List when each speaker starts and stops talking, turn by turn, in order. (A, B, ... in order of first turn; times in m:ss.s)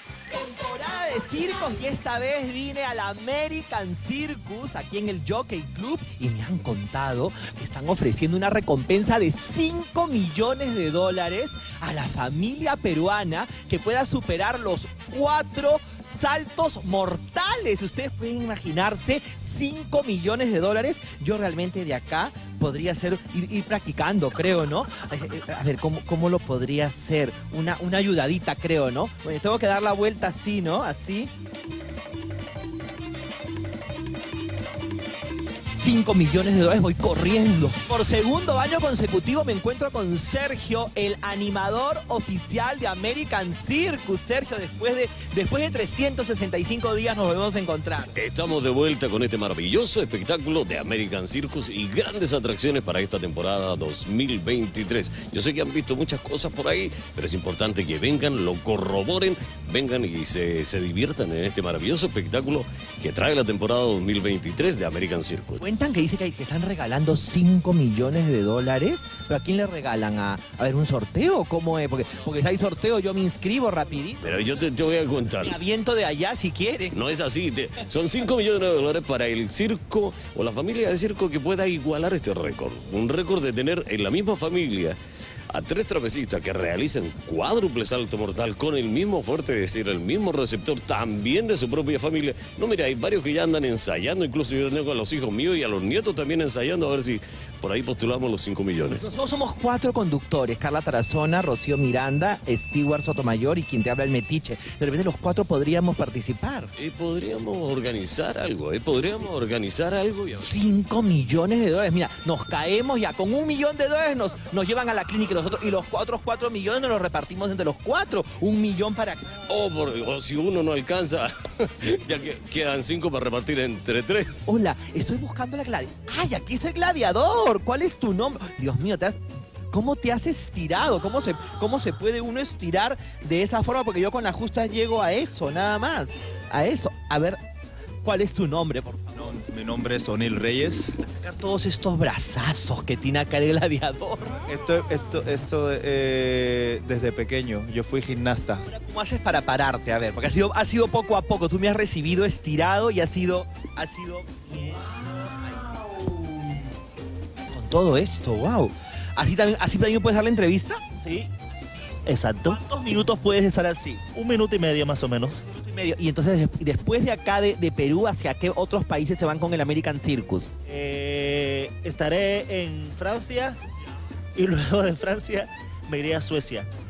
0:00.3-0:31.3 A
0:35.7-0:48.1 A
0:48.1-1:05.6 B
1:05.6-1:14.3 A
1:14.2-1:15.6 B
1:15.4-1:17.0 A
1:16.9-1:25.0 B
1:25.5-1:39.1 B
1:39.0-1:46.7 A
1:46.8-1:50.5 B
1:50.4-1:59.4 A
1:59.5-2:04.4 B
2:04.4-2:09.2 A
2:09.7-2:17.4 A
2:18.0-2:19.4 A
2:19.2-2:21.0 C
2:21.0-2:24.4 A
2:24.4-2:28.6 C
2:28.6-2:36.5 A
2:37.5-2:41.3 A
2:42.0-2:42.6 D
2:42.4-2:44.0 A
2:44.1-2:45.4 D
2:45.4-2:50.5 A
2:50.6-2:53.6 D
2:54.4-2:56.7 D